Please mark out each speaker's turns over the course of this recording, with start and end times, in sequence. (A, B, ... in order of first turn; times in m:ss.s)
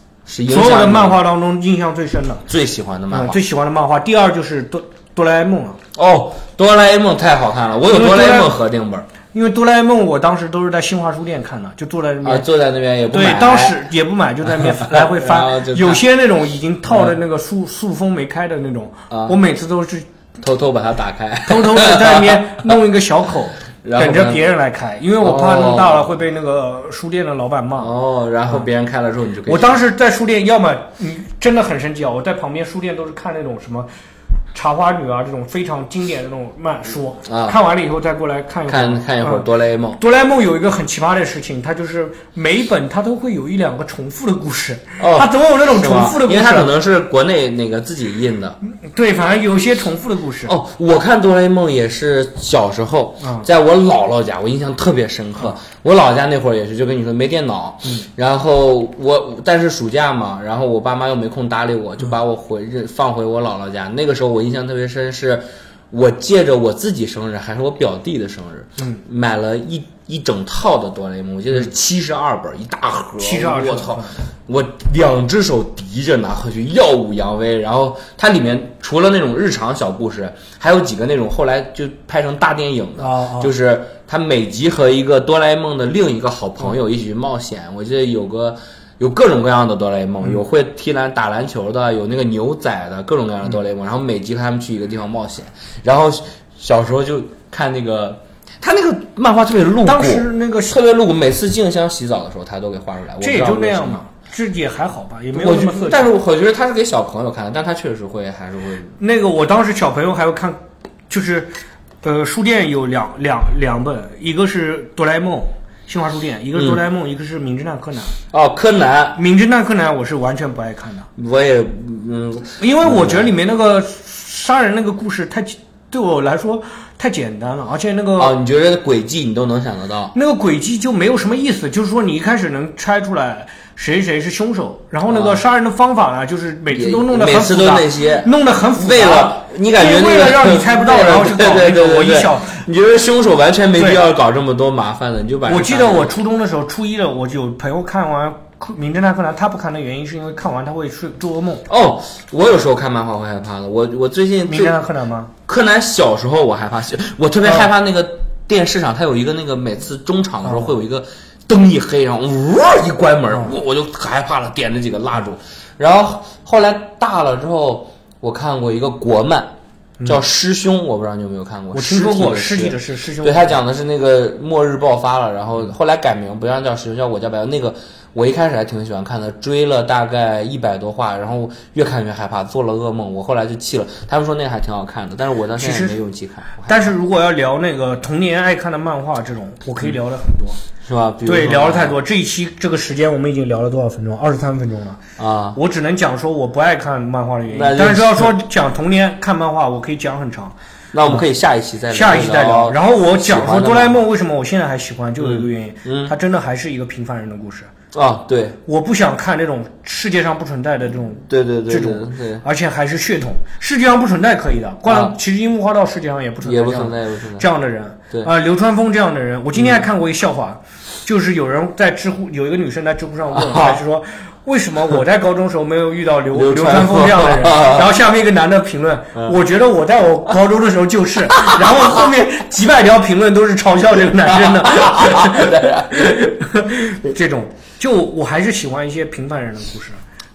0:00.2-0:01.2 A
0:00.5-0:02.4 B
0:02.5-0:03.4 A
0:03.1-0:05.8 B
0:05.9-0:09.1 A
0:07.9-0:08.5 B
0:09.3-0:12.4 B
0:12.2-0:13.8 A
0:13.1-0:20.0 B
0:14.6-0:16.0 A
0:16.9-0:17.1 A
0:19.1-0:19.4 A
0:20.4-0:22.8 A
0:21.5-0:27.9 B
0:23.8-0:24.4 A
0:25.2-0:26.1 A
0:27.8-0:29.8 A
0:29.4-0:33.9 B
0:34.5-0:39.5 B
0:37.3-0:37.6 A
0:38.7-0:40.0 A
0:40.0-0:46.7 B
0:45.0-0:48.6 A
0:48.8-0:50.5 B
0:50.4-1:44.0 A
1:13.2-1:14.2 B
1:23.0-1:23.5 B
1:39.8-1:40.7 B
1:43.2-1:46.1 B
1:45.3-1:49.0 A
1:49.0-1:50.6 B
1:51.1-1:58.2 B
1:58.3-1:59.2 A
1:59.2-2:01.1 B
2:01.2-2:03.3 A
2:02.6-2:08.3 B
2:08.2-2:10.1 A
2:10.1-2:22.6 B
2:15.1-2:15.4 A
2:16.7-2:26.2 A
2:23.8-2:24.0 B
2:25.4-2:31.7 B
2:31.7-2:34.8 A
2:34.5-2:35.3 B
2:35.5-2:49.5 A
2:40.4-2:40.7 B
2:50.0-3:06.7 A
2:51.7-2:53.6 B
3:05.6-3:06.0 B
3:06.6-3:10.6 B
3:10.8-3:12.0 A
3:11.2-3:15.0 B
3:15.2-3:15.6 A
3:15.5-3:20.5 B
3:17.5-3:18.3 A
3:20.9-3:24.0 A
3:21.9-3:27.7 B
3:25.2-3:26.1 A
3:27.9-3:28.6 A
3:28.6-4:00.0 B
3:31.3-3:32.4 A
3:34.9-3:35.1 A
3:36.4-3:37.5 A
3:39.6-3:39.8 A
3:43.3-3:43.8 A
3:46.3-3:47.9 A
3:51.3-3:52.1 A
3:54.1-3:56.3 A